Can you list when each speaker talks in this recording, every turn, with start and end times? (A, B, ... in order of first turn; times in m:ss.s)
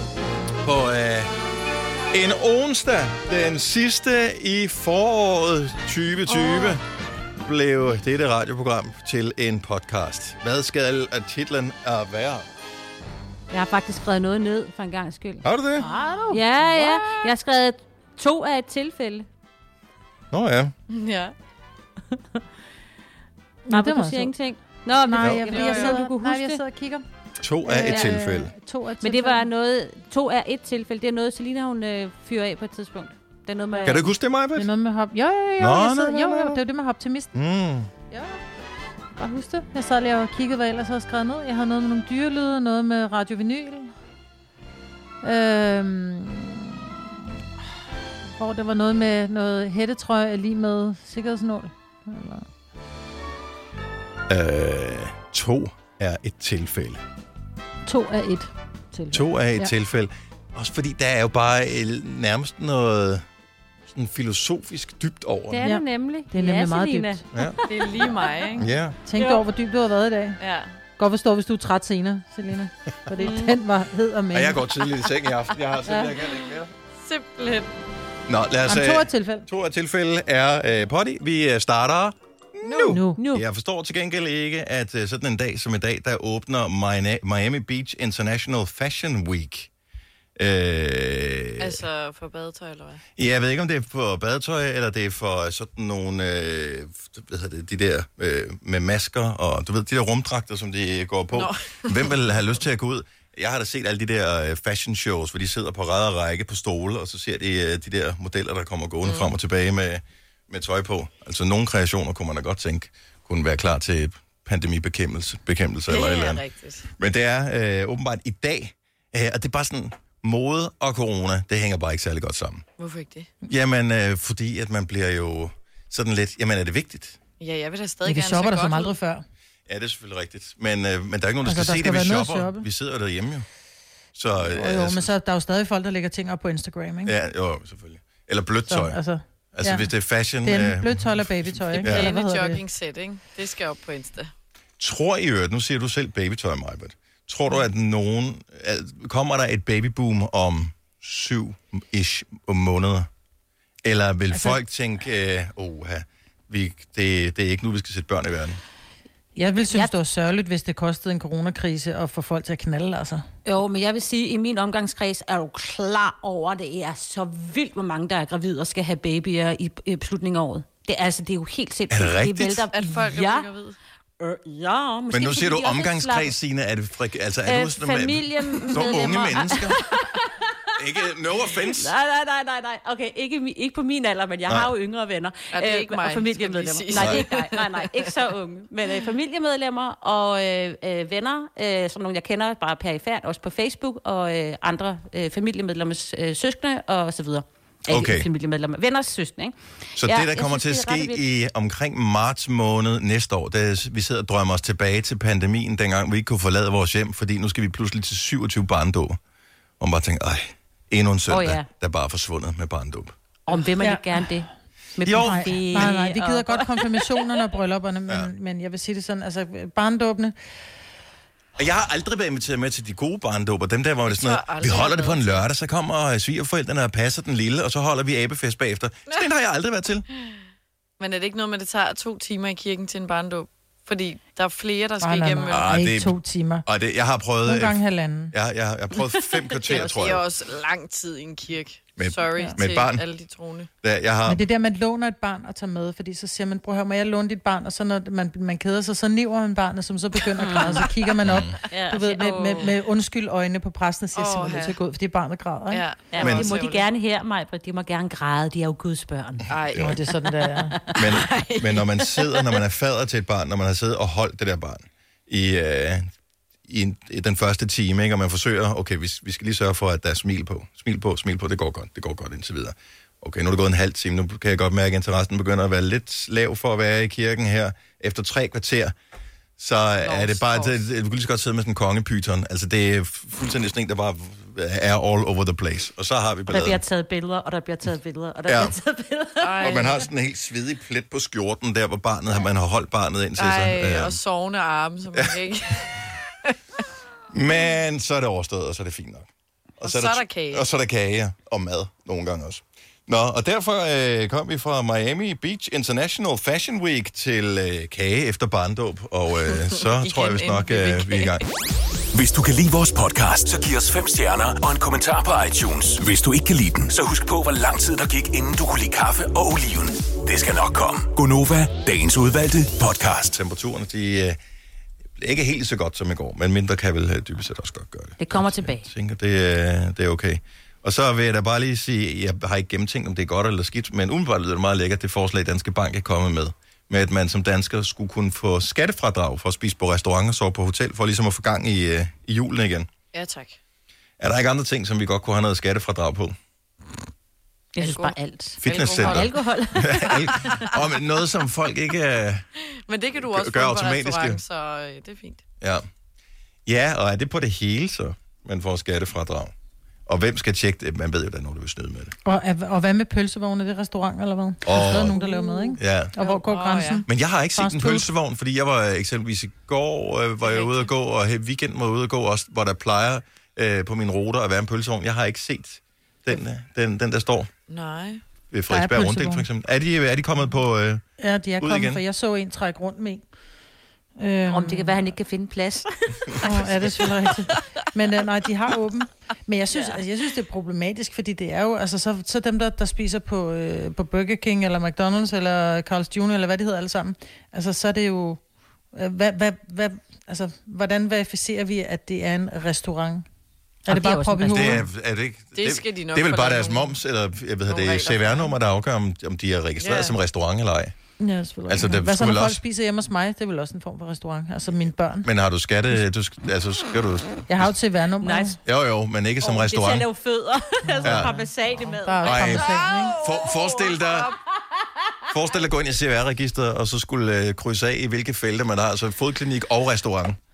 0:00.6-0:01.3 A
0:02.1-0:06.8 A
0:06.4-0:06.7 B
0:07.4-0:12.4 A
0:13.5-0:19.3 B
0:15.4-0:15.9 A
0:15.8-0:17.1 C
0:20.3-0:20.7 A
0:20.9-0:21.3 D
0:23.7-0:24.3 C
0:23.7-0:26.6 B
0:25.0-0:27.0 C
0:25.6-0:26.0 D
0:27.4-0:28.5 A
0:27.6-0:29.4 C
0:29.0-0:34.1 B
0:33.8-0:34.7 A
0:34.6-0:37.3 C
0:35.6-0:36.6 A
0:37.3-0:37.9 A
0:38.1-0:38.4 C
0:39.2-0:43.9 C
0:45.2-0:47.2 C
0:48.4-0:52.4 C
0:54.3-0:57.0 A
0:57.8-0:59.7 C
0:59.1-1:03.2 A
1:03.9-1:05.6 A
1:05.5-1:08.1 B
1:05.6-1:07.2 C
1:07.7-1:08.7 D
1:08.6-1:09.0 A
1:09.1-1:10.4 C
1:10.4-1:10.8 D
1:11.0-1:14.6 C
1:13.2-1:13.5 B
1:14.3-1:16.7 A
1:16.0-1:17.7 D
1:18.3-1:29.7 A
1:18.7-1:19.5 C
1:22.8-1:23.2 C
1:23.2-1:23.4 B
1:30.4-1:31.8 A
1:31.6-1:33.0 D
1:33.2-1:56.4 A
1:41.3-1:42.1 D
1:49.0-1:49.3 D
1:55.9-1:56.9 D
1:57.0-2:02.6 A
2:02.8-2:03.3 D
2:03.5-2:07.2 A
2:07.4-2:08.9 D
2:08.0-2:09.2 C
2:09.7-2:13.4 A
2:11.4-2:12.6 C
2:14.1-2:15.1 A
2:14.5-2:17.1 C
2:17.0-2:19.0 A
2:18.7-2:19.9 C
2:19.5-2:22.1 A
2:20.4-2:22.6 C
2:21.8-2:24.3 D
2:24.8-2:33.1 A
2:33.8-2:38.6 A
2:34.3-2:34.6 C
2:39.3-2:43.2 C
2:43.4-2:53.5 B
2:51.9-2:52.7 A
2:52.7-2:53.8 D
2:54.2-2:56.3 B
2:55.1-2:59.8 A
2:57.4-3:00.5 B
3:00.8-3:01.9 A
3:01.7-3:21.2 B
3:04.5-3:04.7 A
3:05.5-3:08.1 D
3:06.9-3:07.2 A
3:17.9-3:18.3 A
3:20.0-3:29.2 A
3:29.8-3:33.1 A
3:31.3-3:31.7 B
3:33.4-3:37.2 B
3:33.8-3:34.0 C
3:35.0-3:35.8 A
3:35.2-3:40.3 C
3:41.6-3:50.0 A
3:44.1-3:45.4 D
3:51.0-3:55.8 D
3:55.0-3:56.6 C
3:55.5-3:57.8 A
3:57.4-3:58.3 C
3:58.3-4:00.2 A
3:59.7-4:03.7 D
4:02.0-4:03.0 A
4:03.8-4:04.4 A
4:04.3-4:15.8 C
4:10.4-4:10.9 B
4:11.2-4:11.6 A
4:11.7-4:12.7 B
4:14.1-4:14.8 D
4:15.7-4:16.8 D
4:16.1-4:19.5 B
4:16.2-4:16.5 A
4:19.5-4:20.0 D
4:19.7-4:20.8 C
4:20.5-4:21.1 B
4:21.0-4:26.1 A
4:21.0-4:22.6 D
4:26.7-4:38.9 A
4:39.6-4:46.8 A
4:40.0-4:40.8 D
4:46.5-4:49.9 B
4:48.4-4:48.8 A
4:49.4-4:50.0 D
4:49.6-4:54.2 A
4:53.4-4:55.9 D
4:57.3-4:59.3 A
4:59.8-5:00.7 D
4:59.8-5:11.4 A
5:09.7-5:11.4 D
5:12.1-5:23.3 E
5:23.3-5:24.4 A
5:25.2-5:42.9 A
5:28.2-5:28.9 B
5:43.1-5:43.6 D
5:44.2-5:46.3 A
5:47.7-5:50.5 B
5:47.8-5:49.3 D
5:48.6-5:52.4 A
5:50.0-5:50.6 D
5:52.9-5:55.4 D
5:53.2-5:54.4 A
5:55.6-5:55.8 A
5:56.6-5:59.5 A
6:00.1-6:02.1 A
6:02.2-6:07.0 C
6:04.6-6:05.2 A
6:05.4-6:05.7 B
6:05.8-6:06.1 A
6:06.2-6:07.0 D
6:07.1-6:17.5 A
6:07.6-6:08.1 C
6:10.4-6:10.9 D
6:17.7-6:18.2 D
6:18.5-6:21.0 A
6:18.7-6:19.5 C
6:21.2-6:23.2 C
6:21.6-6:22.0 A
6:24.2-6:25.1 C
6:24.5-6:26.7 B
6:26.4-6:38.4 C
6:38.9-6:43.2 C
6:43.9-6:44.8 C
6:43.9-6:44.8 B
6:44.5-6:51.0 A
6:45.5-6:47.0 D
6:47.7-6:48.5 D
6:49.8-6:50.2 D
6:51.2-6:55.3 C
6:51.7-6:52.6 A
6:55.2-6:57.7 A
6:57.5-6:58.6 C
6:58.2-6:58.6 B
6:58.6-7:00.1 A
6:59.4-7:02.6 B
7:00.9-7:03.2 C
7:01.0-7:01.3 A
7:02.2-7:04.3 A
7:02.6-7:04.4 D
7:05.3-7:10.4 A